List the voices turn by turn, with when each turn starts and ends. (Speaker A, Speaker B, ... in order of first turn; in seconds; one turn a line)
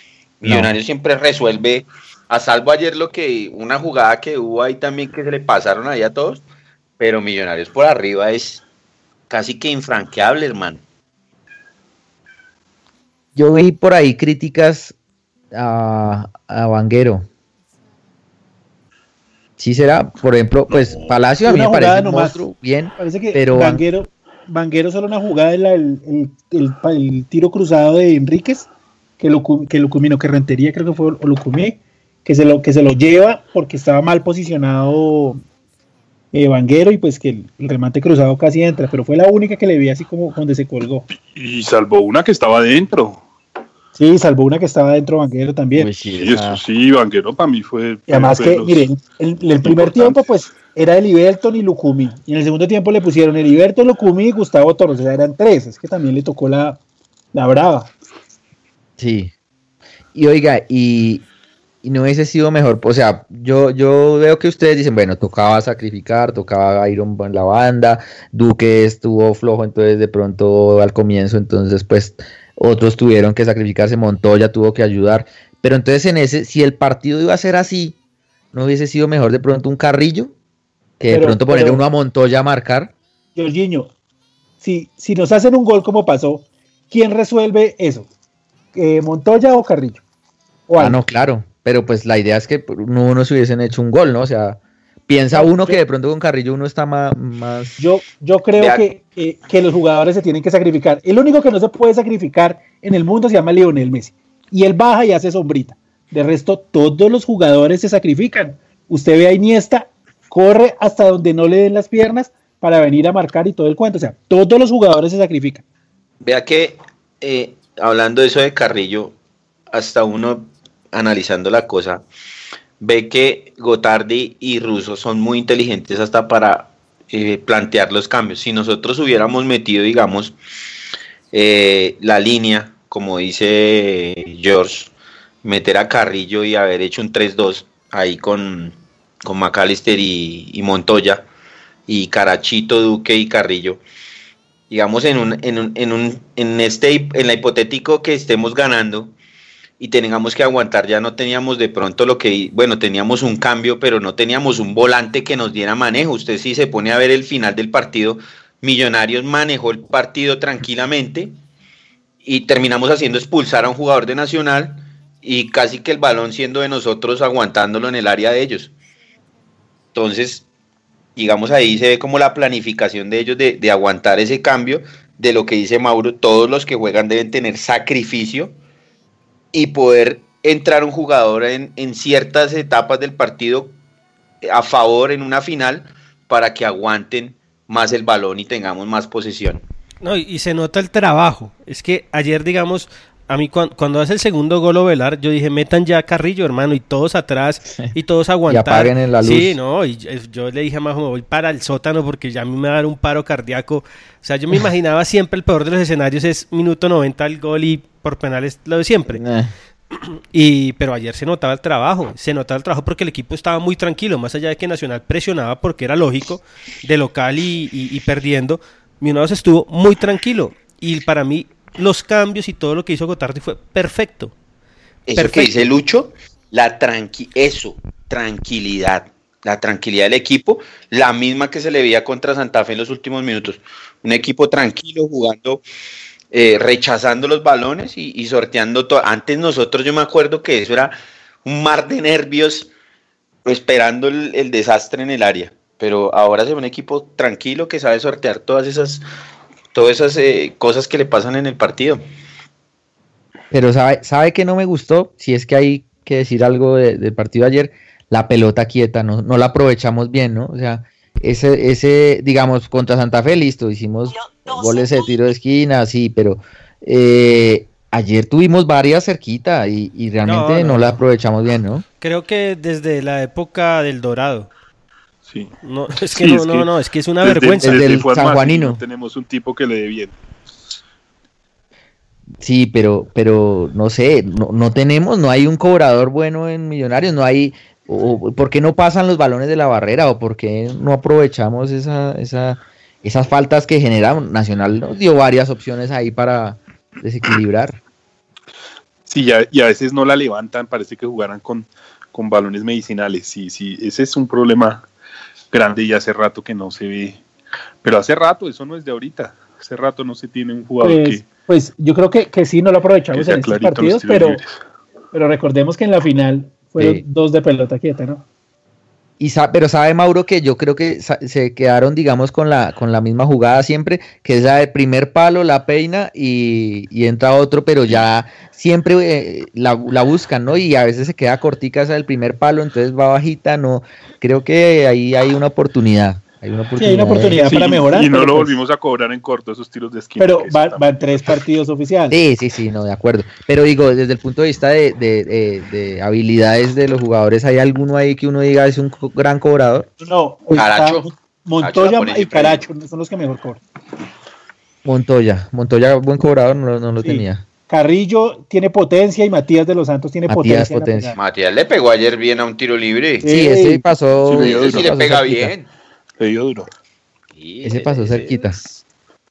Speaker A: 0.4-6.4
Speaker B: 0.4-0.7
Speaker A: 7.0-8.6
Speaker A: 9.3-10.8
Speaker B: 13.3-14.9
Speaker B: 15.5-17.2
Speaker B: 19.6-23.8
Speaker C: 21.4-22.4
Speaker C: 23.0-35.4
Speaker C: 36.3-41.0
Speaker D: 41.2-43.2
Speaker C: 43.9-45.9
Speaker B: 45.7-46.6
Speaker D: 46.2-48.9
Speaker C: 48.1-56.8
Speaker D: 49.6-50.2
Speaker C: 57.3-57.9
Speaker B: 59.0-59.3
Speaker B: 60.1-61.2
Speaker B: 61.8-78.0
Speaker B: 78.5-80.3
Speaker B: 81.0-82.9
Speaker C: 81.1-81.8
Speaker C: 83.3-83.9
Speaker C: 84.6-88.1
Speaker C: 88.7-90.0
Speaker C: 90.7-91.0
Speaker B: 90.8-97.8
Speaker C: 95.3-95.8
Speaker C: 97.8-115.6
Speaker A: 98.5-98.8
Speaker A: 116.2-119.2
Speaker A: 119.7-122.0
Speaker A: 122.8-130.3
Speaker A: 131.3-134.9
Speaker A: 135.4-141.2
Speaker A: 141.9-143.8
Speaker A: 144.7-149.1
Speaker A: 149.8-161.3
Speaker A: 162.2-168.7
Speaker A: 169.9-170.4
Speaker A: 171.2-178.5
Speaker A: 179.5-183.7
Speaker A: 184.4-189.6
Speaker E: 190.0-209.2
Speaker B: 198.5-199.6
Speaker B: 209.1-209.5
Speaker E: 209.9-224.3
Speaker A: 225.1-235.6
Speaker E: 225.2-225.7
Speaker A: 236.3-242.7
Speaker A: 243.4-249.0
Speaker A: 249.7-252.0
Speaker B: 253.5-271.8
Speaker E: 270.2-270.9
Speaker E: 272.0-274.5
Speaker D: 275.2-276.7
Speaker E: 275.6-277.8
Speaker D: 277.2-280.2
Speaker B: 277.6-278.8
Speaker B: 282.4-297.8
Speaker D: 299.1-304.8
Speaker D: 305.5-307.2
Speaker D: 307.8-311.2
Speaker C: 310.8-314.4
Speaker D: 313.1-314.6
Speaker C: 315.1-318.2
Speaker B: 316.8-317.0
Speaker B: 319.2-337.5
Speaker C: 336.8-338.5
Speaker D: 337.4-340.9
Speaker C: 340.2-342.2
Speaker B: 342.1-349.9
Speaker C: 350.0-353.6
Speaker A: 350.5-352.6
Speaker B: 354.8-357.4
Speaker C: 357.0-361.1
Speaker B: 360.3-361.1
Speaker A: 361.1-363.3
Speaker C: 363.2-363.8
Speaker B: 363.2-365.5
Speaker D: 364.2-364.9
Speaker A: 364.3-365.7
Speaker D: 366.2-366.7
Speaker A: 367.4-368.8
Speaker B: 367.6-368.6